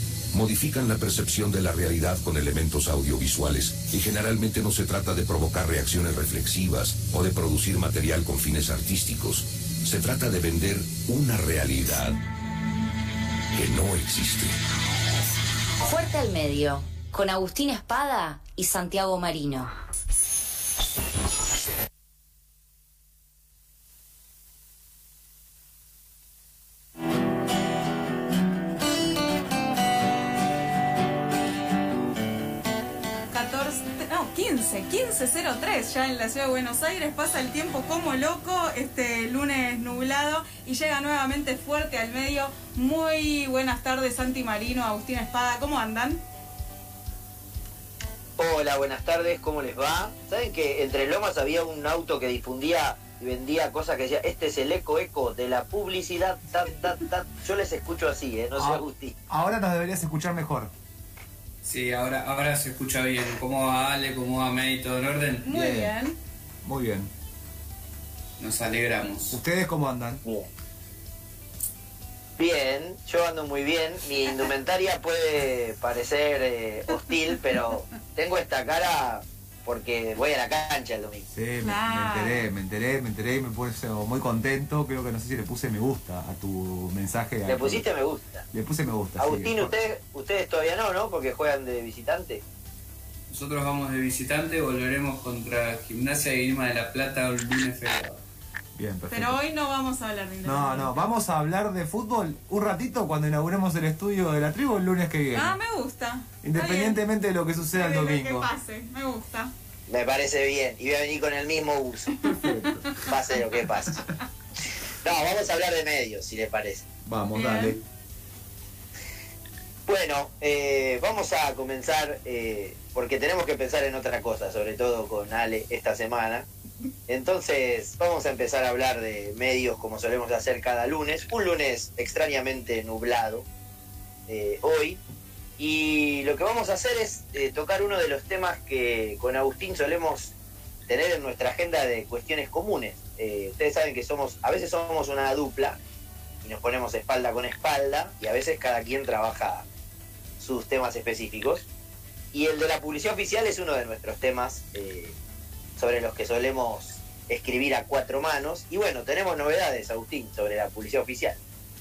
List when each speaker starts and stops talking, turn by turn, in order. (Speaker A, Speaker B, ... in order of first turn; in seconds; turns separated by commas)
Speaker A: 0.3-12.2, Speaker A: 13.5-14.6, Speaker B: 15.8-19.7, Speaker C: 33.3-46.2, Speaker D: 48.4-59.1, Speaker E: 58.6-60.7, Speaker F: 61.6-65.5, Speaker C: 65.4-66.2, Speaker E: 65.5-65.9, Speaker E: 66.6-67.1, Speaker F: 68.4-69.4, Speaker E: 69.3-70.2, Speaker D: 70.2-70.5, Speaker D: 72.4-81.3, Speaker E: 81.3-87.8, Speaker C: 81.6-82.5, Speaker D: 87.5-88.4, Speaker E: 88.5-89.7, Speaker D: 89.2-92.4, Speaker F: 93.3-98.2, Speaker E: 98.8-99.4, Speaker C: 99.1-100.9, Speaker E: 100.4-105.5, Speaker C: 105.3-107.0, Speaker E: 106.4-108.5, Speaker C: 107.7-109.5, Speaker D: 109.9-112.3, Speaker E: 112.3-112.9, Speaker D: 113.0-114.0, Speaker D: 115.0-116.9, Speaker E: 117.0-117.8, Speaker C: 117.3-117.8, Speaker D: 119.8-126.5, Speaker D: 127.1-133.4, Speaker D: 134.3-135.0, Speaker D: 135.6-140.3, Speaker D: 140.9-145.8, Speaker D: 146.4-149.6, Speaker D: 150.4-151.7, Speaker D: 152.3-155.1, Speaker D: 155.8-161.4